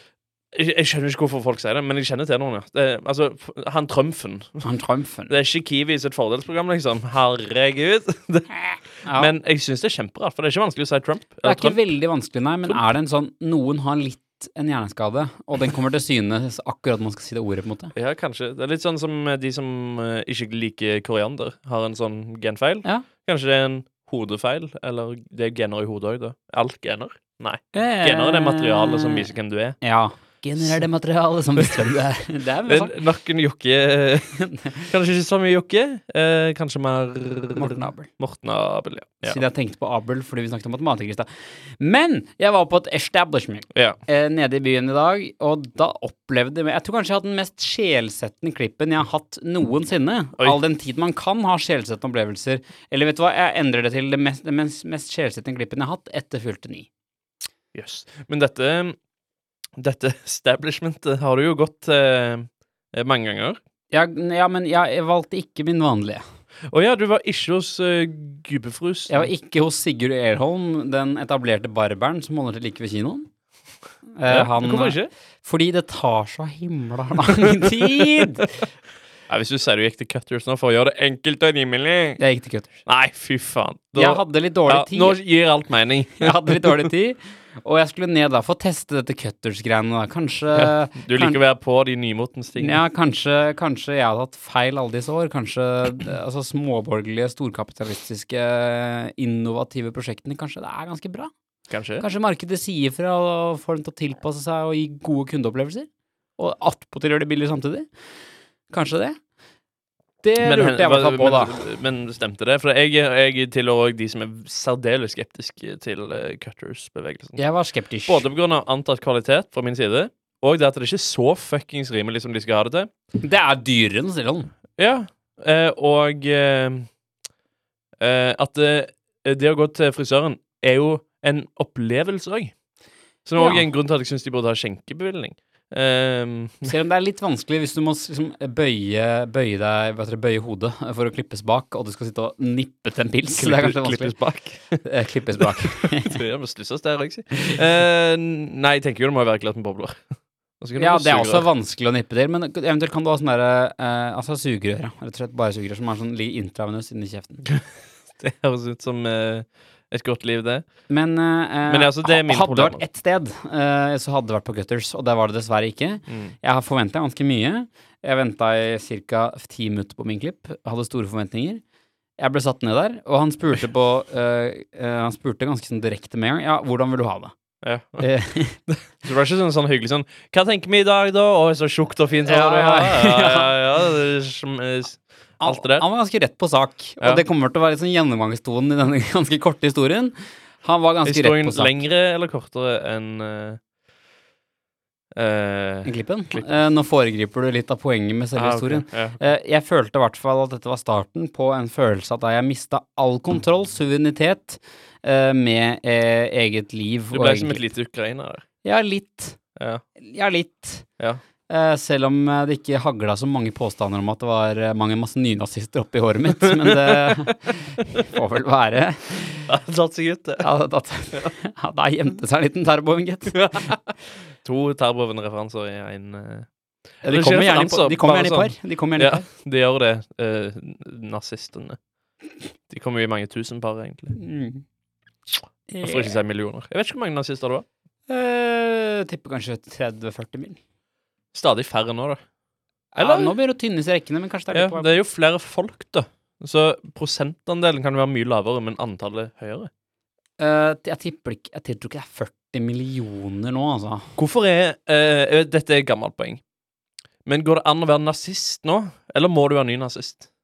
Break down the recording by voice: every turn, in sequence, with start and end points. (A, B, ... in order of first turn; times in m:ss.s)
0:00.5-0:04.6 A
0:04.6-0:05.3 B
0:05.3-0:11.8 A
0:09.1-0:09.3 B
0:11.4-0:17.9 B
0:18.0-0:29.8 A
0:27.7-0:33.0 B
0:32.7-0:39.4 A
0:34.3-0:34.9 B
0:37.6-0:38.1 B
0:39.2-0:56.9 B
0:43.7-0:44.0 A
0:57.7-0:59.0 A
0:59.8-1:03.6 A
1:03.9-1:06.2 B
1:06.7-1:09.3 A
1:09.1-1:13.3 B
1:14.2-1:18.7 B
1:14.3-1:15.1 A
1:19.3-1:22.2 A
1:22.2-1:22.8 B
1:22.8-1:26.9 A
1:24.0-1:25.2 B
1:26.2-1:31.4 B
1:30.5-1:32.8 A
1:32.6-1:41.3 B
1:41.7-1:42.0 A
1:42.0-1:47.9 B
1:48.7-1:49.2 B
1:50.2-1:51.7 B
1:50.4-1:57.4 A
1:57.4-1:58.3 B
1:58.1-2:02.9 A
2:03.2-2:04.5 B
2:04.8-2:06.9 A
2:08.0-2:12.5 A
2:13.2-2:16.7 A
2:13.4-2:13.7 B
2:16.6-2:24.2 B
2:23.3-2:24.8 A
2:24.8-2:26.2 B
2:25.6-2:30.0 A
2:30.6-2:31.5 A
2:30.8-2:37.4 B
2:38.2-2:40.7 A
2:40.9-2:51.6 B
2:41.7-2:42.8 A
2:46.1-2:46.4 A
2:52.2-2:57.3 B
2:57.6-2:58.0 A
2:58.0-2:58.6 B
2:58.7-3:05.9 A
3:02.2-3:03.5 B
3:05.4-3:11.8 B
3:11.0-3:13.6 A
3:15.2-3:16.7 A
3:15.8-3:27.6 B
3:18.4-3:19.2 A
3:27.1-3:28.4 A
3:28.6-3:29.4 B
3:29.6-3:29.8 A
3:30.0-3:30.9 B
3:31.5-3:39.5 B
3:36.4-3:38.0 A
3:39.5-3:40.5 A
3:40.4-3:43.8 B
3:43.3-3:43.8 A
3:44.4-3:46.5 A
3:47.0-3:51.8 A
3:47.0-3:49.2 B
3:52.7-3:54.2 A
3:54.1-3:54.6 B
3:55.7-3:56.2 B
3:55.8-3:57.6 A
3:58.1-4:00.6 B
4:01.3-4:02.2 A
4:03.0-4:04.9 B
4:03.0-4:03.4 A
4:04.5-4:09.7 A
4:10.4-4:14.1 B
4:14.2-4:16.4 A
4:17.2-4:20.3 A